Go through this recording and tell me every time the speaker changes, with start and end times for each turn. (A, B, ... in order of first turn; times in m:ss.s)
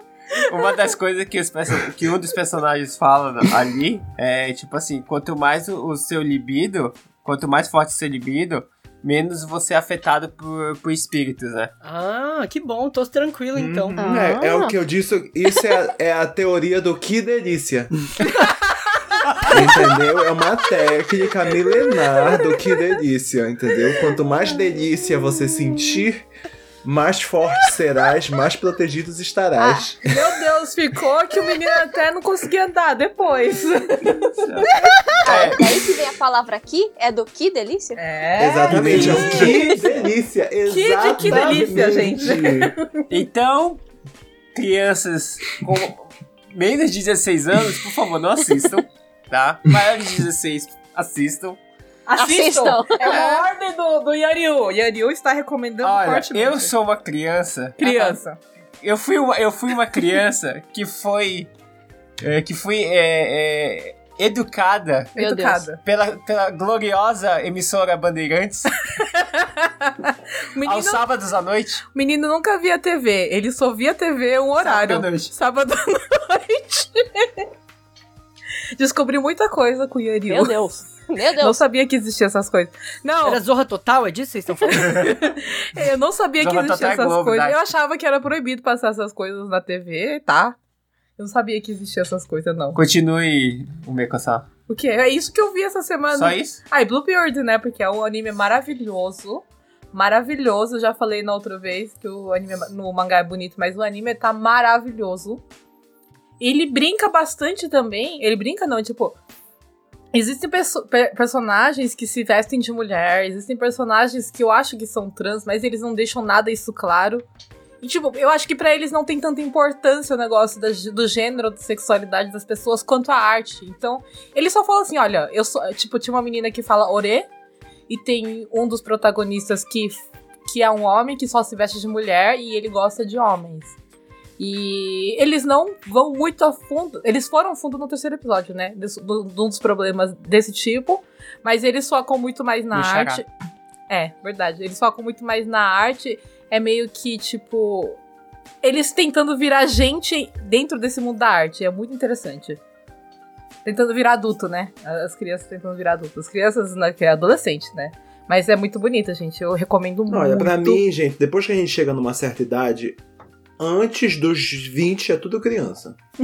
0:00.5-0:11.7 A
0:11.8-0:14.3 B
0:13.5-0:18.3 C
0:14.0-0:14.8 D
0:19.5-0:26.3 C
0:26.8-0:30.2 C
0:30.0-0:34.7 E
0:34.4-0:35.6 A
0:35.2-0:38.0 D
0:38.0-0:40.0 E
0:38.4-0:42.7 C
0:38.7-0:39.4 A
0:40.7-0:42.9 E
0:43.1-0:43.8 A
0:44.6-0:51.6 A
0:52.1-0:56.7 E
0:52.2-0:53.5 D
0:55.8-0:58.2 A
0:57.8-0:58.4 E
0:58.8-1:01.5 A
1:02.2-1:05.1 A
1:05.2-1:05.7 D
1:05.2-1:05.8 E
1:05.8-1:08.8 A
1:09.0-1:11.0 E
1:10.6-1:11.8 A
1:11.9-1:17.5 E
1:14.6-1:15.3 A
1:18.8-1:20.6 E
1:20.3-1:21.6 D
1:21.4-1:23.4 E
1:23.2-1:25.1 B
1:24.7-1:30.6 E
1:26.4-1:27.6 A
1:31.2-1:32.8 E
1:32.8-1:34.4 A
1:34.7-1:45.4 E
1:36.1-1:36.6 A
1:46.4-1:49.2 E
1:50.1-1:57.3 E
1:57.8-2:07.3 E
2:07.9-2:13.8 E
2:14.4-2:23.3 E
2:22.7-2:23.2 A
2:23.9-2:28.0 E
2:28.6-2:32.6 E
2:33.6-2:40.8 E
2:40.1-2:43.0 C
2:43.6-2:46.0 C